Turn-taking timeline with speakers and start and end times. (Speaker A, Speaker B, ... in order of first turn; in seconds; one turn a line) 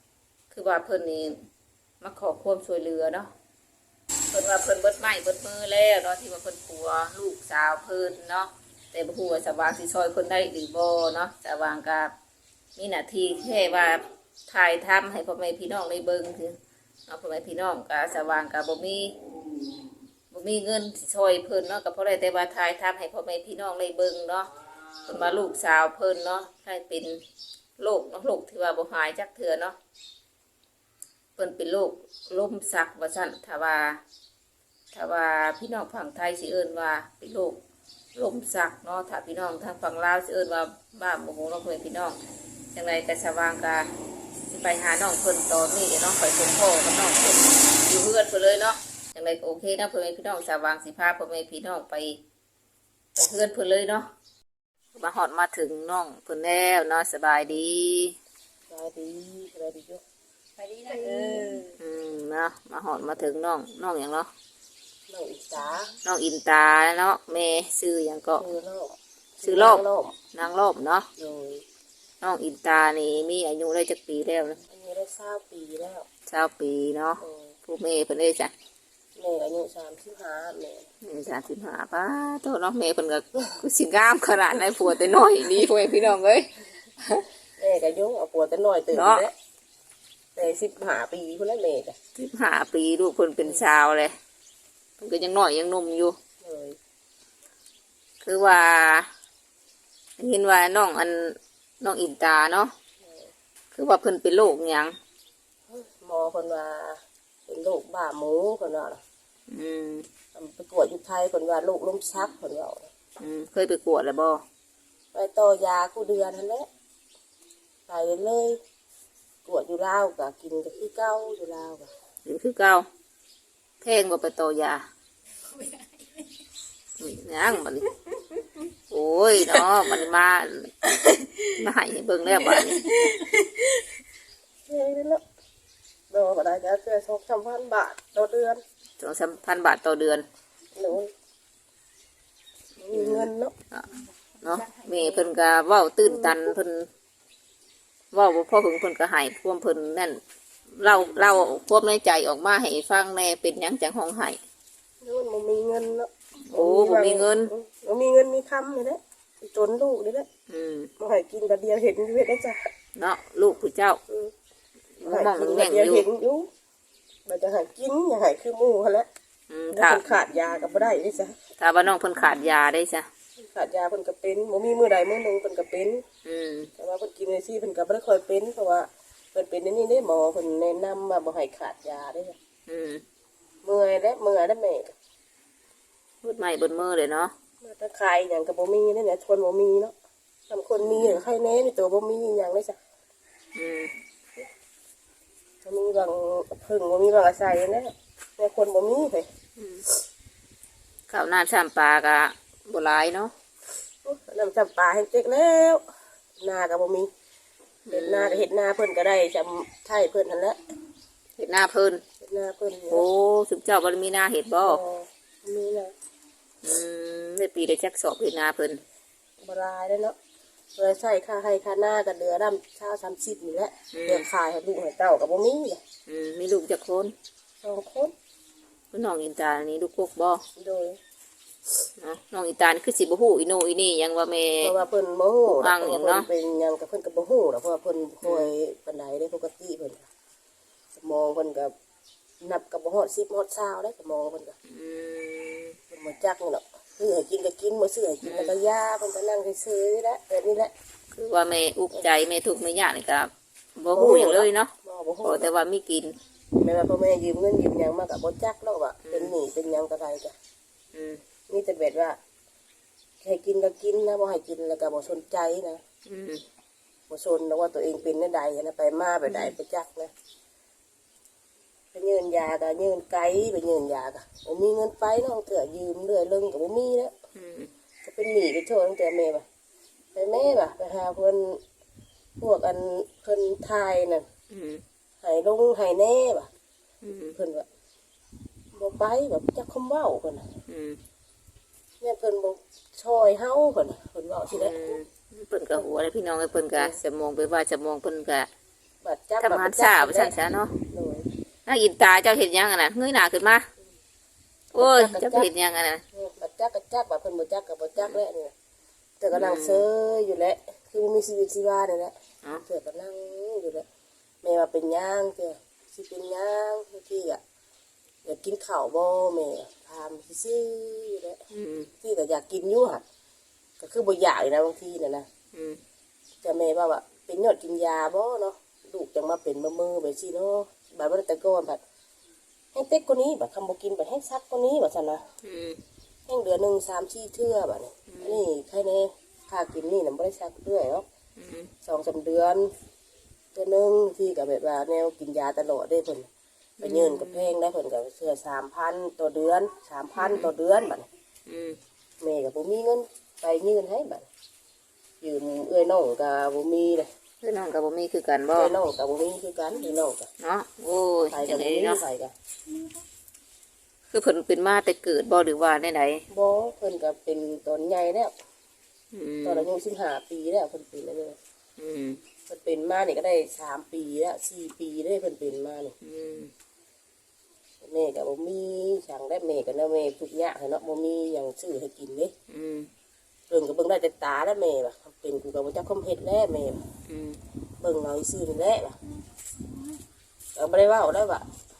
Speaker A: 0.5-1.4
Speaker A: 2.0-3.3
Speaker A: 4.3-12.1
Speaker A: 12.8-19.2
Speaker A: 20.3-24.5
Speaker A: 25.1-27.2
Speaker A: 27.8-29.8
Speaker A: 31.4-34.0
Speaker A: 34.9-37.6
Speaker A: 38.1-42.2
Speaker A: 42.7-43.9
Speaker A: 44.5-52.2
Speaker A: 53.2-54.1
Speaker A: 55.0-58.2
Speaker B: 58.7-60.0
Speaker C: 60.6-61.7
Speaker A: 61.0-64.3
Speaker B: 65.1-65.9
Speaker A: 66.0-68.5
Speaker B: 68.4-70.2
Speaker A: 69.4-71.1
Speaker B: 71.2-71.6
Speaker A: 72.2-74.6
Speaker B: 74.7-76.1
Speaker A: 76.3-78.5
Speaker B: 77.2-77.5
Speaker B: 79.2-80.9
Speaker A: 81.0-87.2
Speaker B: 87.6-89.3
Speaker A: 88.9-89.2
Speaker B: 90.4-92.0
Speaker A: 92.2-94.1
Speaker A: 95.0-96.2
Speaker B: 96.4-96.8
Speaker A: 98.2-99.1
Speaker A: 100.2-102.7
Speaker A: 103.7-105.0
Speaker B: 105.7-109.0
Speaker A: 109.5-110.1
Speaker B: 110.3-112.9
Speaker A: 113.2-114.4
Speaker B: 115.1-116.7
Speaker B: 117.9-118.6
Speaker B: 119.4-121.9
Speaker A: 122.2-122.9
Speaker A: 123.8-124.8
Speaker A: 127.0-127.9
Speaker A: 128.9-130.7
Speaker C: 131.0-131.5
Speaker A: 131.5-133.2
Speaker C: 132.5-133.7
Speaker B: 134.7-135.2
Speaker B: 136.1-138.6
Speaker A: 139.0-140.2
Speaker B: 140.8-141.1
Speaker B: 142.8-143.5
Speaker A: 142.9-143.9
Speaker C: 144.4-145.2
Speaker A: 144.4-146.9
Speaker B: 146.1-146.3
Speaker A: 148.1-150.2
Speaker A: 150.7-154.4
Speaker B: 155.0-160.3
Speaker A: 156.5-157.5
Speaker A: 160.5-160.9
Speaker B: 161.0-162.7
Speaker A: 163.0-164.0
Speaker B: 164.1-164.3
Speaker A: 165.0-166.1
Speaker B: 165.0-166.5
Speaker B: 167.3-169.1
Speaker A: 169.5-170.0
Speaker B: 169.7-171.3
Speaker A: 171.6-173.1
Speaker B: 173.4-176.0
Speaker A: 176.2-176.7
Speaker B: 176.8-182.4
Speaker A: 182.7-183.0
Speaker B: 183.6-184.9
Speaker A: 186.2-187.3
Speaker B: 187.6-189.9
Speaker B: 190.5-192.8
Speaker A: 190.9-191.2
Speaker A: 193.5-193.9
Speaker B: 195.7-199.3
Speaker A: 199.6-199.8
Speaker A: 201.1-203.3
Speaker B: 204.0-205.8
Speaker B: 206.4-207.1
Speaker A: 207.9-208.5
Speaker B: 207.9-210.6
Speaker A: 211.4-212.0
Speaker B: 212.2-213.0
Speaker A: 212.9-214.8
Speaker B: 214.6-215.9
Speaker A: 216.6-218.8
Speaker B: 219.4-220.2
Speaker B: 220.8-225.8
Speaker A: 223.9-224.3
Speaker A: 226.1-227.1
Speaker B: 227.6-228.1
Speaker A: 228.9-230.4
Speaker B: 230.6-231.0
Speaker A: 232.0-234.7
Speaker B: 234.6-240.1
Speaker A: 235.5-236.3
Speaker A: 238.2-238.5
Speaker B: 241.0-241.7
Speaker B: 242.4-244.6
Speaker A: 244.7-245.8
Speaker B: 245.9-250.7
Speaker A: 248.2-248.5
Speaker A: 251.1-254.7
Speaker B: 253.9-255.4
Speaker A: 255.2-256.2
Speaker B: 256.6-260.3
Speaker A: 259.0-259.4
Speaker A: 260.9-261.2
Speaker B: 261.5-262.2
Speaker B: 263.2-265.8
Speaker A: 266.1-266.4
Speaker B: 267.1-270.1
Speaker A: 269.3-269.5
Speaker B: 271.9-277.1
Speaker A: 277.4-277.7
Speaker B: 278.0-279.5
Speaker B: 280.1-281.6
Speaker B: 282.4-284.2
Speaker A: 284.5-284.8
Speaker B: 285.2-286.5
Speaker A: 287.0-287.4
Speaker B: 287.3-287.7
Speaker B: 288.8-290.5
Speaker A: 290.7-291.0
Speaker B: 292.0-295.0
Speaker A: 294.5-298.5
Speaker B: 299.0-301.3
Speaker A: 299.4-300.7
Speaker A: 301.6-303.7
Speaker A: 304.7-306.0
Speaker B: 304.8-305.5
Speaker B: 306.1-308.5
Speaker B: 309.2-313.9
Speaker A: 309.3-309.9
Speaker B: 314.4-317.4
Speaker B: 318.2-321.4
Speaker A: 321.5-321.9
Speaker B: 322.0-323.0
Speaker B: 323.8-325.3
Speaker A: 325.5-325.8
Speaker B: 326.4-331.8
Speaker B: 332.7-335.2
Speaker A: 335.4-335.8
Speaker B: 336.3-341.0
Speaker A: 338.1-338.4
Speaker A: 341.4-341.7
Speaker B: 341.8-342.7
Speaker B: 343.5-346.3
Speaker A: 346.8-347.5
Speaker B: 346.8-351.1
Speaker A: 350.2-350.5
Speaker A: 351.5-351.8
Speaker B: 352.2-354.3
Speaker B: 355.2-357.1
Speaker A: 357.4-358.7
Speaker B: 358.5-360.3
Speaker A: 360.4-362.0
Speaker B: 361.3-362.3
Speaker A: 364.1-366.2
Speaker B: 366.3-368.3
Speaker A: 369.1-369.7
Speaker B: 369.4-371.4
Speaker A: 371.8-372.2
Speaker B: 372.5-375.9
Speaker A: 376.0-376.5
Speaker B: 377.8-382.3
Speaker A: 382.5-382.9
Speaker B: 383.5-386.8
Speaker A: 387.1-387.4
Speaker B: 387.8-389.0
Speaker B: 390.6-391.5